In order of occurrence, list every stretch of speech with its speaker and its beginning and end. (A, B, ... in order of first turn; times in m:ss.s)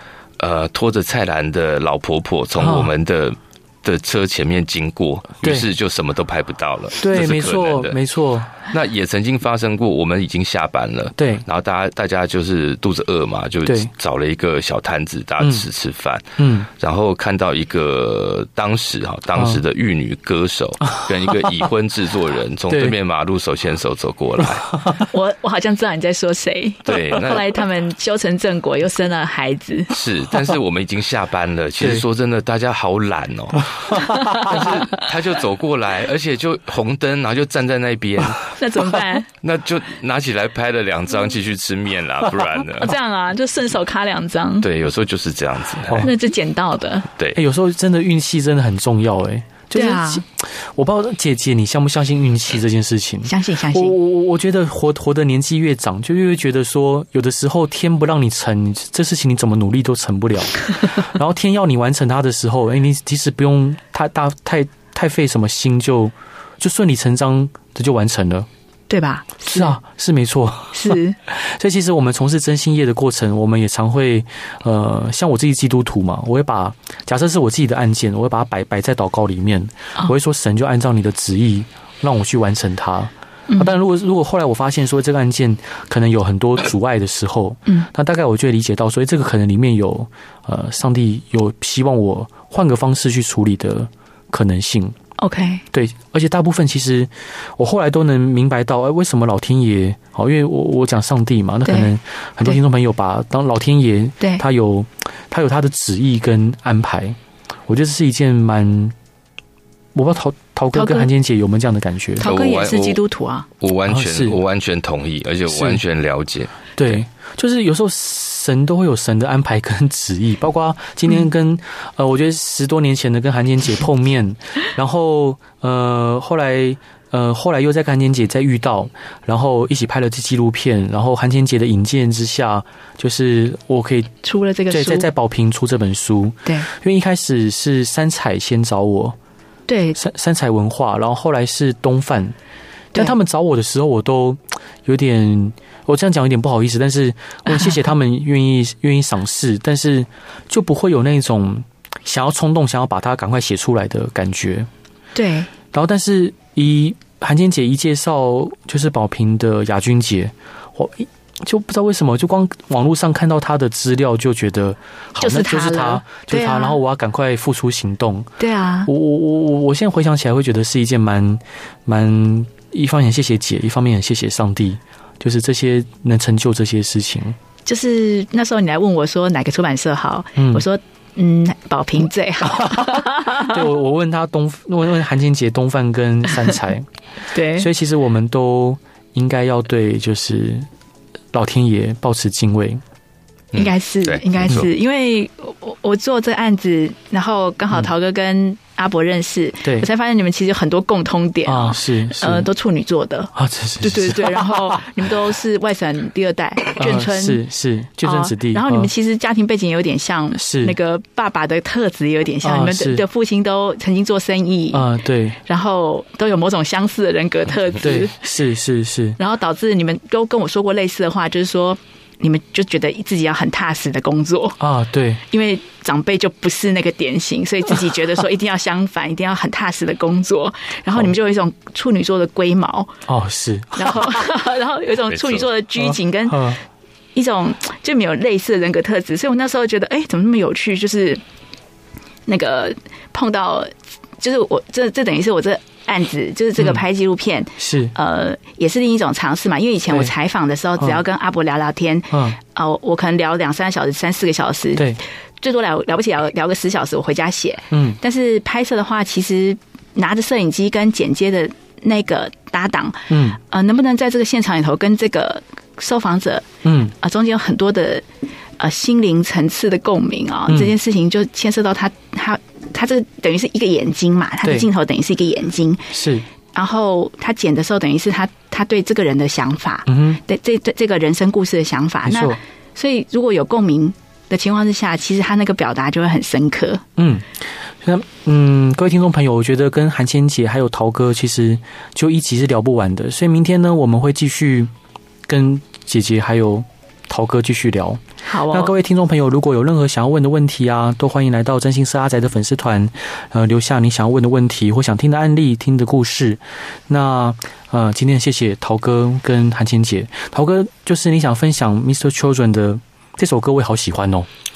0:00.4-0:08.0 A
0:02.6-0:02.9 B
0:05.4-0:05.7 B
0:07.0-0:08.5 B
0:08.7-0:24.7 A
0:11.2-0:11.4 B
0:13.6-0:13.9 B
0:16.4-0:16.7 B
0:20.9-0:21.6 B
0:22.7-0:23.0 B
0:25.1-0:29.9 C
0:26.8-0:27.4 A
0:29.9-0:38.5 A
0:33.9-0:34.7 B
0:38.6-0:39.3 C
0:39.4-0:42.9 A
0:42.8-0:44.7 C
0:44.6-0:46.1 A
0:46.0-0:47.1 C
0:47.3-1:08.5 B
0:49.7-0:50.2 C
0:53.2-0:54.0 C
1:08.9-1:09.7 C
1:09.5-1:35.0 B
1:10.7-1:11.2 C
1:35.2-1:35.6 C
1:35.7-1:48.9 B
1:41.6-1:41.9 C
1:49.9-1:52.3 B
1:50.7-1:51.1 C
1:52.2-1:53.5 C
1:52.2-1:53.0 A
1:53.6-1:57.0 A
1:53.9-1:54.4 B
1:55.5-1:55.8 B
1:56.8-2:14.1 B
2:14.2-2:15.1 C
2:14.7-2:19.2 B
2:19.7-2:20.0 C
2:20.0-2:22.3 B
2:22.9-2:34.7 B
2:35.1-2:35.5 C
2:35.7-2:48.3 B
2:45.2-2:46.8 C
2:48.4-2:48.9 C
2:48.9-2:57.4 B
2:57.6-3:03.6 C
3:00.4-3:00.6 B
3:02.4-3:06.9 B
3:07.3-3:07.7 C
3:07.5-3:10.7 B
3:11.3-3:12.8 B
3:13.5-3:14.7 A
3:13.5-3:27.4 C
3:21.4-3:22.5 B
3:23.3-3:24.5 B
3:26.8-3:28.9 B
3:28.0-3:34.9 C
3:30.4-3:30.8 B
3:32.4-3:33.0 B
3:34.7-3:35.4 B
3:35.4-3:38.2 C
3:37.8-3:39.2 B
3:39.2-3:44.6 C
3:44.6-3:45.2 B
3:45.3-3:52.9 C
3:53.0-3:54.0 B
3:53.8-3:56.6 C
3:55.1-3:55.5 A
3:55.8-3:56.6 B
3:57.1-4:01.2 C
4:02.3-4:26.4 C
4:07.6-4:07.9 B
4:12.1-4:12.4 B
4:17.7-4:18.0 B
4:23.1-4:23.4 B
4:26.6-4:26.9 B
4:27.0-4:28.0 C
4:28.6-4:35.9 C
4:30.5-4:30.7 B
4:34.4-4:34.7 B
4:35.9-4:36.2 B
4:36.5-4:46.8 C
4:39.9-4:40.2 B
4:42.0-4:42.4 B
4:47.0-4:47.2 B
4:47.8-4:54.7 B
4:55.3-5:14.3 B
4:58.3-4:58.7 C